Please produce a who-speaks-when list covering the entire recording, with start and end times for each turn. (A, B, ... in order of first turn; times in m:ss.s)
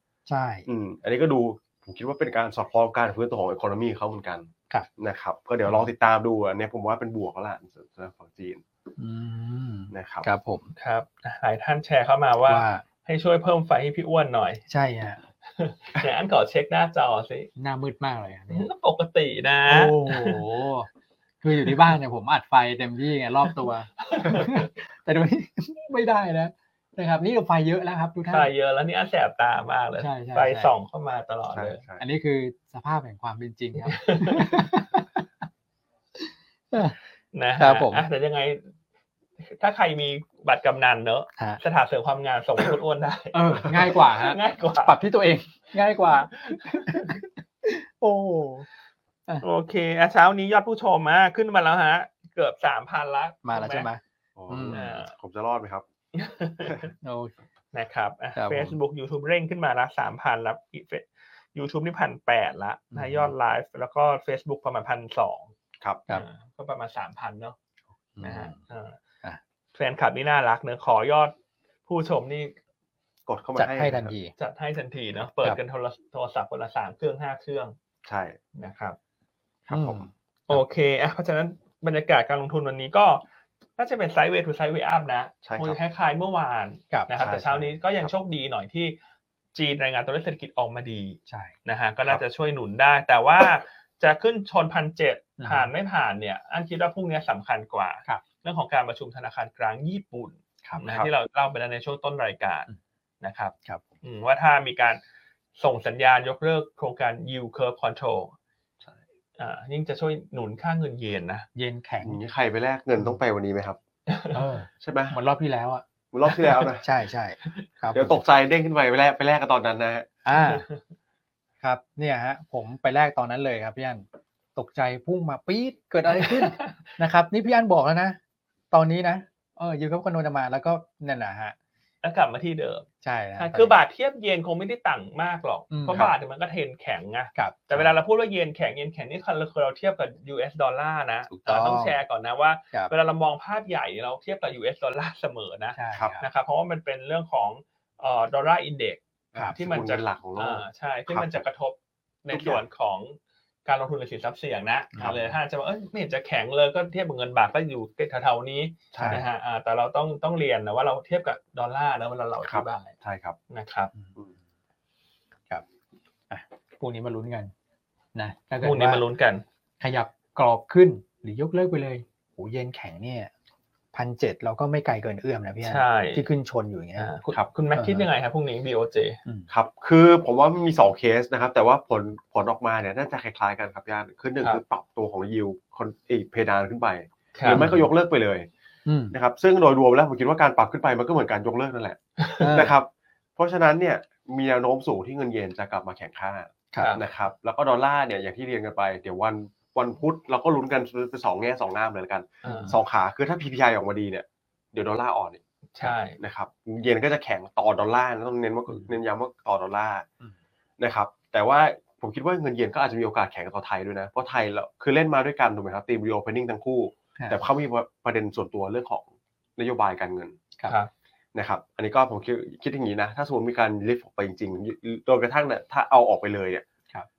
0:00.3-0:00.7 A
0:00.7-0:08.6 B
0:09.0-0:10.7 A
0:09.9-0:10.3 B
0:10.8-0:14.6 C
0:12.4-0:12.8 A
0:14.7-0:15.2 A
0:15.6-0:17.5 C
0:17.6-0:18.7 A
0:18.5-0:20.4 C
0:19.7-0:20.9 A
0:21.4-0:28.5 A
0:21.7-0:22.0 C
0:24.1-0:24.7 C
0:28.3-0:31.8 C
0:30.0-0:30.7 A
0:31.5-0:32.0 B
0:32.0-0:35.3 A
0:33.9-0:34.6 C
0:36.2-0:37.0 A
0:37.3-0:38.7 C
0:37.6-0:38.1 A
0:39.4-0:45.0 C
0:43.3-0:48.7 A
0:46.0-0:47.2 C
0:49.4-0:53.9 C
0:53.4-0:54.9 A
0:54.4-0:55.8 B
0:54.7-0:55.1 C
0:56.1-0:56.9 C
0:57.0-0:57.4 A
0:57.7-1:05.5 C
0:58.4-0:58.8 A
1:02.9-1:03.3 A
1:06.1-1:07.6 C
1:08.2-1:08.6 A
1:08.2-1:09.0 C
1:09.8-1:11.3 C
1:11.9-1:12.5 C
1:13.3-1:14.1 B
1:13.6-1:14.3 A
1:14.4-1:17.8 C
1:18.0-1:18.4 B
1:18.6-1:19.0 C
1:19.7-1:20.0 B
1:19.7-1:20.6 A
1:20.5-1:23.2 C
1:23.8-1:29.0 C
1:25.4-1:25.8 B
1:27.2-1:28.1 B
1:29.5-1:42.7 C
1:31.3-1:31.5 A
1:35.4-1:35.7 A
1:40.8-1:41.1 B
1:43.2-1:45.0 C
1:45.6-1:48.3 C
1:49.4-1:51.5 C
1:51.6-1:52.2 A
1:52.0-1:53.8 B
1:54.1-1:54.4 C
1:54.3-1:55.8 A
1:54.8-1:55.2 B
1:56.1-1:56.8 B
1:56.8-1:58.2 A
1:57.9-2:00.1 B
2:00.3-2:00.6 A
2:00.4-2:00.8 C
2:01.6-2:04.0 A
2:04.6-2:08.2 A
2:06.1-2:06.8 C
2:08.7-2:11.6 A
2:12.0-2:12.9 C
2:13.0-2:13.7 A
2:13.4-2:29.0 C
2:15.7-2:16.1 A
2:17.4-2:17.9 A
2:21.3-2:22.0 A
2:25.8-2:26.2 A
2:29.3-2:31.4 B
2:29.5-2:43.0 C
2:32.3-2:32.6 B
2:35.0-2:35.4 A
2:38.9-2:39.2 B
2:39.0-2:39.2 A
2:42.4-2:43.4 B
2:43.5-2:43.9 C
2:46.3-2:47.5 A
2:48.2-2:49.0 A
2:48.6-2:49.4 C
2:49.8-2:53.3 A
2:53.9-2:57.1 A
2:55.6-2:56.2 C
2:57.0-2:59.2 C
2:57.8-2:58.1 A
2:59.5-3:08.5 B
3:07.4-3:07.7 C
3:07.5-3:07.9 A
3:08.9-3:09.2 A
3:09.1-3:30.1 B
3:12.2-3:12.5 C
3:12.4-3:12.8 A
3:22.4-3:22.7 C
3:22.4-3:22.8 A
3:25.8-3:26.2 C
3:30.8-3:40.4 B
3:41.3-3:46.6 B